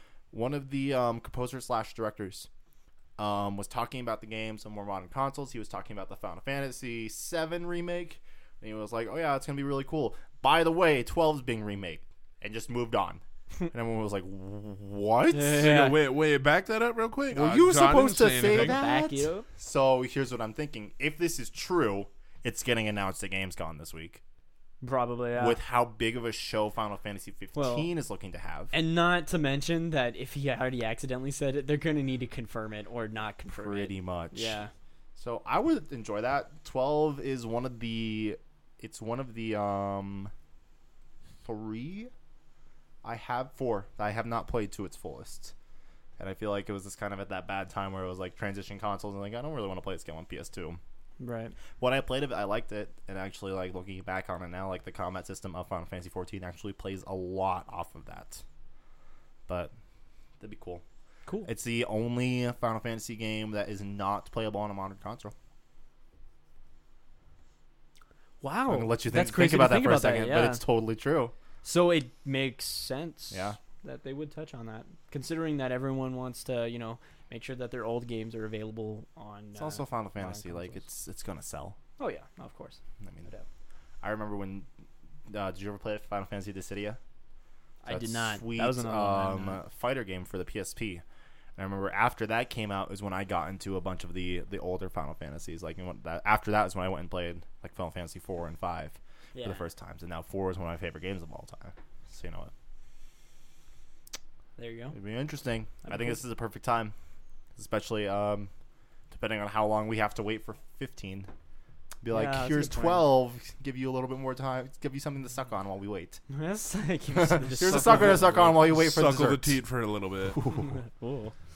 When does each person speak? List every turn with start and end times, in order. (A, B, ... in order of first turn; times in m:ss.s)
0:00.3-0:02.5 A
0:03.2-0:15.8 A
0:15.3-0:16.0 B
0:15.4-0:18.8 C
0:17.3-0:24.2 A
0:18.5-0:19.5 B
0:24.8-0:25.6 B
0:25.4-0:28.7 A
0:27.6-0:27.9 B
0:28.7-0:34.7 B
0:33.5-0:34.6 A
0:35.2-0:40.3 A
0:41.4-0:42.1 A
0:43.0-0:45.5 A
0:46.2-0:50.8 A
0:51.2-0:51.6 B
0:51.8-0:58.4 A
1:00.4-1:00.8 A
1:01.4-1:05.3 A
1:08.4-1:10.6 B
1:08.7-1:11.3 A
1:11.6-1:20.8 B
1:13.3-1:13.6 A
1:19.6-1:21.8 A
1:22.0-1:23.4 B
1:23.0-1:23.3 A
1:24.0-1:24.7 A
1:25.3-1:27.0 A
1:27.8-1:29.6 B
1:27.9-1:31.0 A
1:31.6-1:42.5 A
1:39.4-1:39.6 B
1:44.6-1:45.0 B
1:44.9-1:46.9 A
1:45.8-1:46.1 B
1:47.6-1:48.5 A
1:49.1-1:51.3 A
1:52.0-1:56.2 A
1:52.1-1:53.1 B
1:56.3-1:58.6 B
1:57.2-1:59.6 A
1:57.6-2:00.5 C
2:00.3-2:00.7 A
2:00.5-2:01.3 B